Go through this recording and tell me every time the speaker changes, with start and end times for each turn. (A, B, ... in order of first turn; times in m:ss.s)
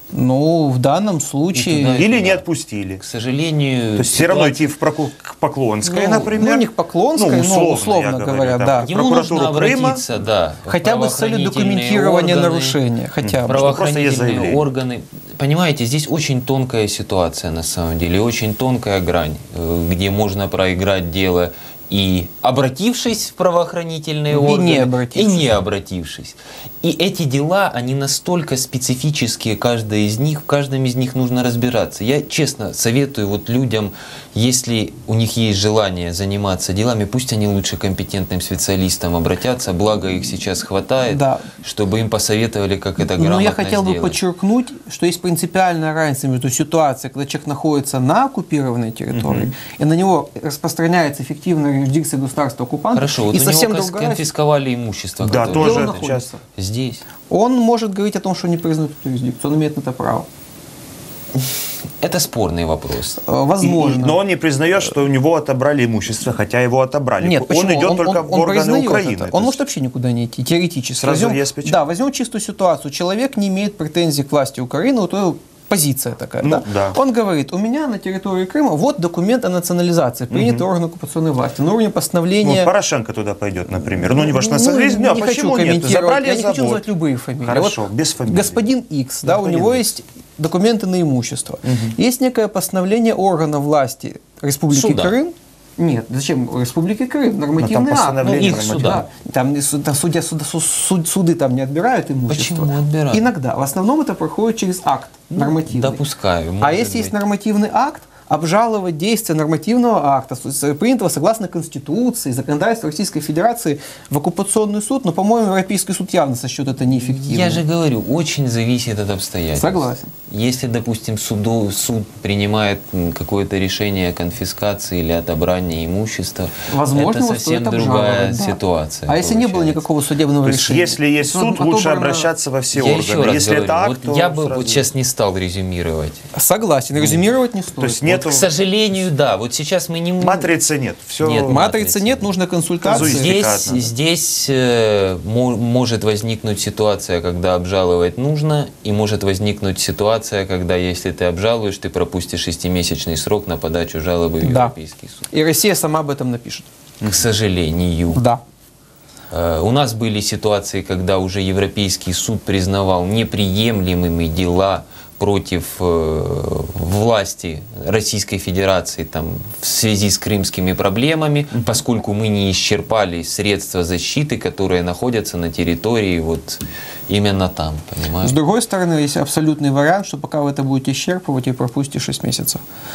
0:00.1-0:02.0 A
0:01.5-0:02.4 B
0:01.9-0:03.0 C
0:03.0-0:04.6 B
0:04.0-0:10.0 C
0:05.8-0:08.9 A
0:08.8-0:12.8 B
0:10.7-0:13.6 A
0:13.2-0:14.6 C
0:13.4-0:44.2 B
0:24.3-0:25.5 A
0:41.0-0:41.4 A
0:43.0-0:54.3 A
0:49.1-0:49.5 C
0:52.9-0:57.0 B
0:55.2-0:56.2 C
0:55.4-0:56.4 A
0:57.3-1:00.3 A
1:02.0-1:03.2 B
1:03.2-1:04.2 A
1:03.6-1:09.6 C
1:07.2-1:22.7 A
1:11.0-1:11.8 C
1:16.4-1:17.0 C
1:20.3-1:20.6 C
1:22.4-1:26.8 C
1:23.8-1:46.0 A
1:27.4-1:28.6 C
1:29.2-1:29.8 C
1:31.6-1:31.9 C
1:34.7-1:35.1 B
1:37.6-1:39.0 C
1:38.2-1:39.0 B
1:42.3-1:43.3 B
1:45.3-1:47.1 B
1:46.6-1:57.6 A
1:57.1-2:09.8 B
1:59.6-2:00.1 A
2:06.7-2:12.3 A
2:10.4-2:14.9 C
2:12.7-2:16.2 B
2:16.3-2:18.3 A
2:17.8-2:18.5 C
2:18.2-2:20.5 B
2:20.2-2:21.6 C
2:21.2-2:22.3 B
2:21.4-2:23.3 A
2:22.8-2:23.9 C
2:22.8-2:35.3 B
2:34.4-2:34.7 A
2:35.3-2:36.7 A
2:37.0-2:38.2 B
2:38.1-2:38.4 A
2:39.3-2:58.4 B
2:58.2-3:02.6 A